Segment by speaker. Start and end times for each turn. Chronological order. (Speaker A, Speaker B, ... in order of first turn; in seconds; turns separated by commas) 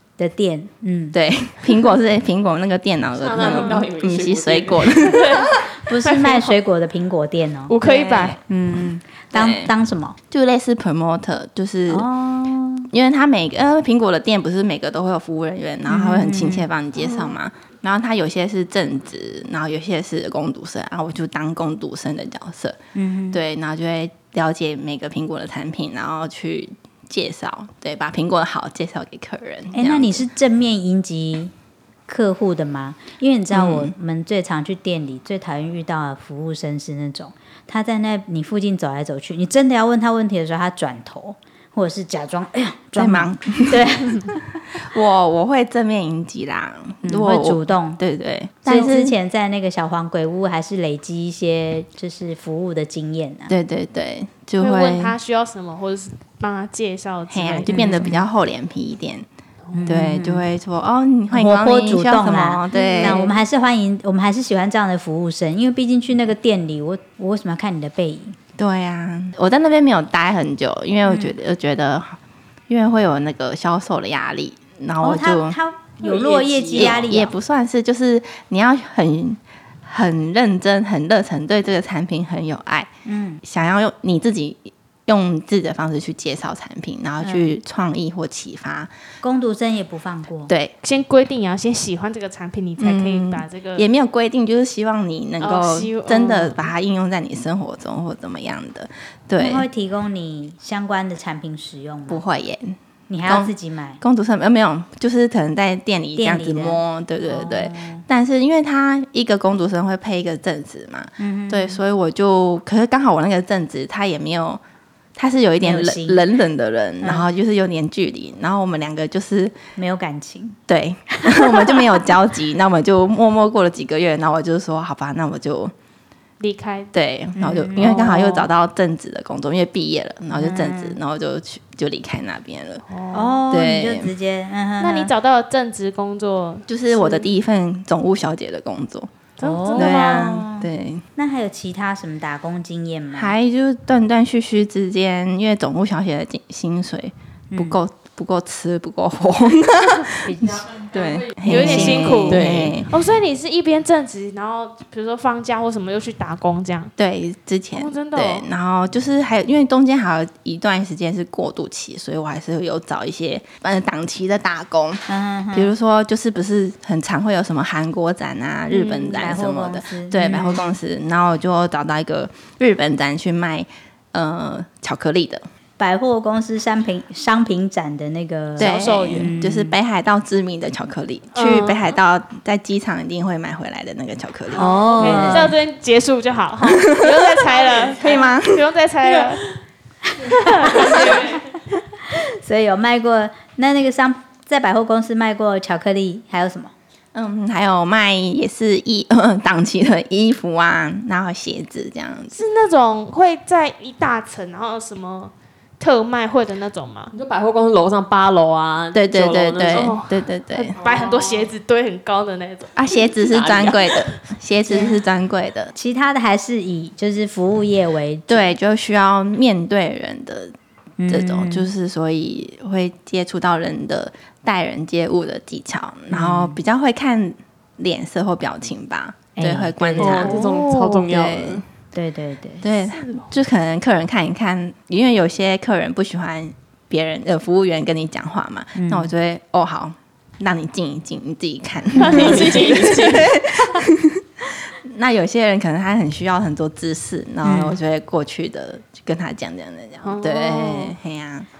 Speaker A: 0.2-1.2, Speaker B: 1.1-5.6, Speaker C: 3.2-5.2, Speaker D: 5.0-6.5, Speaker A: 5.8-7.8, Speaker D: 7.7-8.4, Speaker B: 7.8-8.4, Speaker A: 8.5-10.2, Speaker B: 9.3-9.7, Speaker B: 10.3-12.1, Speaker A: 11.9-12.9, Speaker B: 12.9-22.8, Speaker A: 15.8-16.7, Speaker A: 22.9-23.4, Speaker B: 23.3-30.2, Speaker A: 29.7-31.5, Speaker A: 32.1-44.6, Speaker B: 33.5-33.9, Speaker B: 43.0-44.0, Speaker B: 44.7-49.1, Speaker A: 47.0-48.0, Speaker A: 48.6-53.5, Speaker B: 53.5-55.1, Speaker D: 54.6-57.8, Speaker B: 57.3-59.2, Speaker A: 57.6-58.2, Speaker A: 59.7-60.5, Speaker B: 59.9-63.3, Speaker A: 61.3-68.4, Speaker D: 62.7-63.3, Speaker B: 68.6-72.2, Speaker A: 71.0-71.3, Speaker B: 72.7-75.6, Speaker A: 75.0-77.3, Speaker B: 76.7-82.9, Speaker A: 83.0-83.4, Speaker B: 83.4-88.9, Speaker A: 87.2-87.5, Speaker A: 89.2-90.5, Speaker B: 90.5-90.7, Speaker D: 90.8-93.9, Speaker B: 92.8-99.6, Speaker D: 95.4-96.7, Speaker A: 99.4-102.2, Speaker B: 102.1-114.6, Speaker A: 103.1-104.0, Speaker A: 106.2-108.0, Speaker A: 111.2-111.8, Speaker B: 115.2-119.5, Speaker A: 115.6-116.2, Speaker A: 119.8-120.6, Speaker B: 120.7-125.7, Speaker A: 121.2-122.0, Speaker D: 126.4-126.9, Speaker B: 126.9-132.8, Speaker A: 127.3-128.5, Speaker A: 130.3-131.0, Speaker D: 132.9-133.4, Speaker A: 133.1-135.1, Speaker B: 133.5-134.1, Speaker D: 134.8-137.3, Speaker B: 136.7-139.1, Speaker D: 139.4-140.3, Speaker A: 139.4-143.3, Speaker B: 139.7-141.0, Speaker B: 143.1-152.9, Speaker A: 147.5-147.8, Speaker A: 150.2-150.7, Speaker A: 151.4-152.5, Speaker D: 151.4-156.9, Speaker C: 151.5-152.7, Speaker B: 157.0-175.4, Speaker D: 157.7-158.5, Speaker A: 165.1-165.7, Speaker A: 168.7-170.7, Speaker A: 175.8-179.7, Speaker B: 178.6-185.5, Speaker D: 178.6-179.3, Speaker D: 181.3-181.9, Speaker D: 184.5-189.4, Speaker A: 184.5-185.5, Speaker B: 186.7-187.1, Speaker C: 187.5-188.2, Speaker B: 188.0-188.7, Speaker A: 190.1-191.3, Speaker D: 190.2-191.4, Speaker C: 190.8-191.3, Speaker A: 192.1-196.7, Speaker B: 197.1-202.4, Speaker D: 202.3-207.1, Speaker C: 207.1-210.0, Speaker B: 208.9-210.8, Speaker D: 209.7-213.1, Speaker C: 210.6-211.5, Speaker B: 212.8-215.7, Speaker C: 213.3-213.8, Speaker A: 214.7-215.0, Speaker A: 215.7-218.5, Speaker B: 218.3-220.5, Speaker A: 221.0-221.7, Speaker B: 221.1-231.6, Speaker A: 226.1-226.6, Speaker A: 229.3-230.6, Speaker C: 229.8-231.6, Speaker D: 230.3-230.5, Speaker A: 231.9-232.7, Speaker B: 232.6-251.5, Speaker D: 232.9-233.3, Speaker A: 238.8-239.1, Speaker C: 242.0-243.4, Speaker D: 242.1-242.8, Speaker A: 247.4-247.8, Speaker D: 250.0-250.9